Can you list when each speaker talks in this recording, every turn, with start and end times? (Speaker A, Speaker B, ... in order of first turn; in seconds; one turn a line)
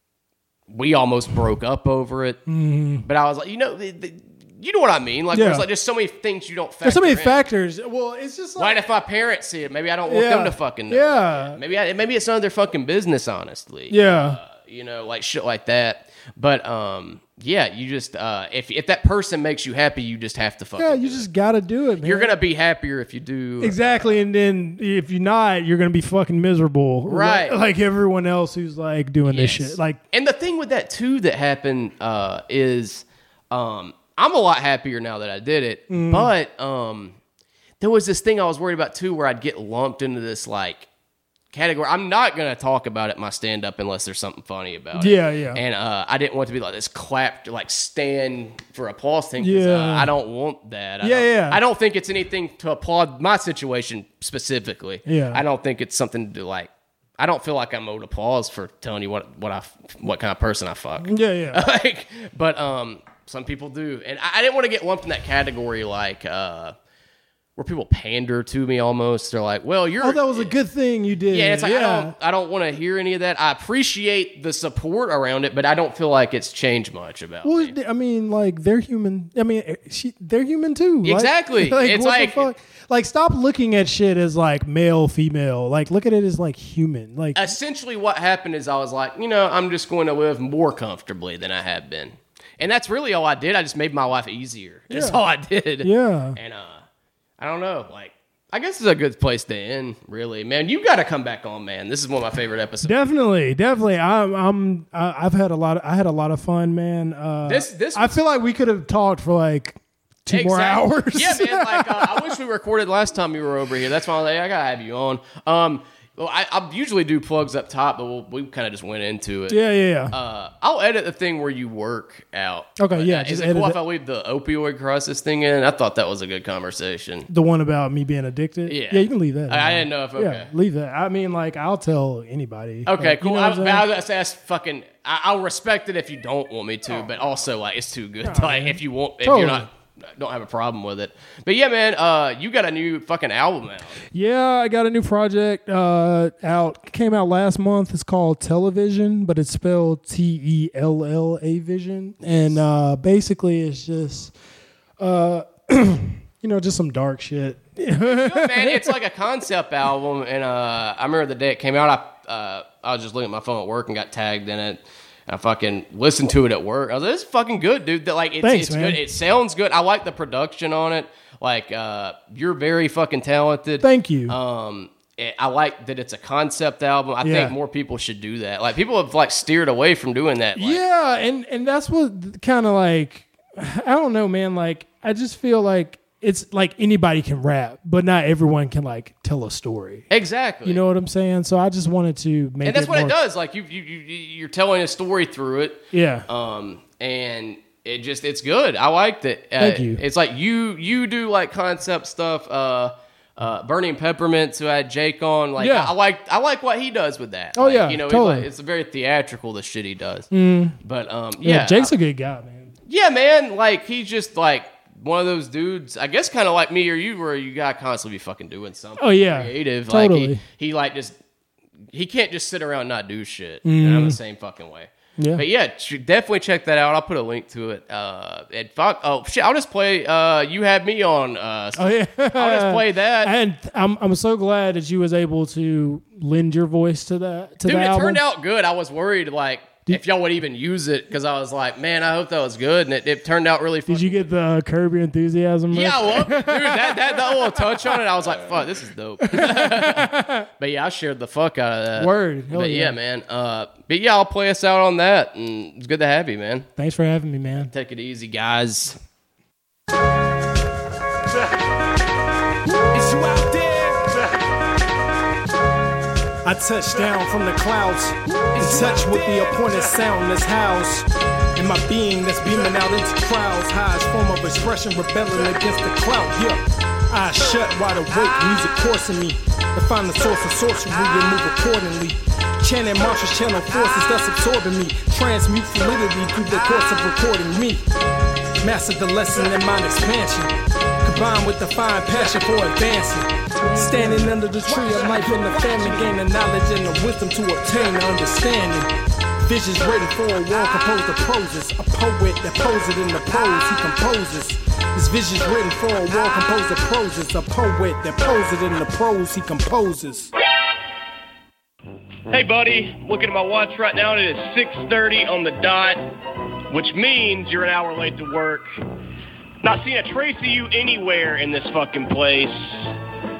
Speaker A: 0.7-2.4
Speaker B: 2.5-3.1
Speaker A: 3.0-7.5
Speaker B: 5.3-5.6
Speaker B: 6.8-8.8
Speaker A: 8.6-21.2
Speaker B: 10.1-11.6
Speaker B: 13.9-14.4
Speaker B: 20.8-22.3
Speaker A: 22.0-24.2
Speaker B: 23.6-30.0
Speaker A: 27.1-27.6
Speaker A: 29.3-37.2
Speaker B: 35.9-36.3
Speaker A: 37.8-40.9
Speaker A: 41.5-66.8
Speaker B: 45.0-45.6
Speaker B: 49.4-50.1
Speaker B: 51.0-51.6
Speaker B: 55.0-55.4
Speaker B: 61.0-61.6
Speaker A: 67.6-70.5
Speaker B: 70.0-72.2
Speaker A: 71.3-77.7
Speaker B: 77.4-87.5
Speaker A: 81.0-82.5
Speaker A: 87.4-96.8
Speaker B: 94.9-95.2
Speaker B: 95.8-96.4
Speaker A: 97.4-103.0
Speaker B: 102.8-112.3
Speaker A: 107.4-108.2
Speaker A: 110.3-127.3
Speaker B: 119.5-120.2
Speaker B: 122.8-123.8
Speaker B: 127.3-133.9
Speaker A: 128.7-130.5
Speaker A: 132.9-144.0
Speaker B: 138.2-139.7
Speaker B: 144.1-154.3
Speaker B: 155.0-158.9
Speaker A: 158.1-180.8
Speaker B: 168.4-169.0
Speaker B: 173.8-174.4
Speaker B: 177.2-177.6
Speaker B: 180.6-190.1
Speaker A: 190.1-190.8
Speaker B: 190.7-193.2
Speaker A: 192.6-210.3
Speaker B: 195.9-196.3
Speaker B: 199.6-200.0
Speaker B: 205.6-205.9
Speaker B: 207.6-208.5
Speaker B: 210.3-210.8
Speaker A: 210.8-211.9
Speaker B: 211.4-212.7
Speaker A: 212.9-221.2
Speaker B: 219.0-220.4
Speaker A: 221.9-233.3
Speaker B: 223.7-224.2
Speaker B: 225.2-225.4
Speaker B: 231.8-238.2
Speaker A: 237.6-244.3
Speaker B: 243.9-247.8
Speaker A: 245.7-256.7
Speaker B: 249.2-250.5
Speaker B: 252.0-252.9
Speaker B: 256.8-257.7
Speaker A: 257.7-259.0
Speaker C: 262.9-264.0
Speaker C: 266.4-276.6
Speaker A: 268.6-269.4
Speaker C: 277.1-287.8
Speaker C: 288.6-290.5
Speaker C: 291.0-298.9
Speaker B: 293.6-294.4
Speaker C: 299.4-310.3
Speaker A: 312.3-316.0
Speaker A: 316.7-318.7
Speaker A: 319.6-322.9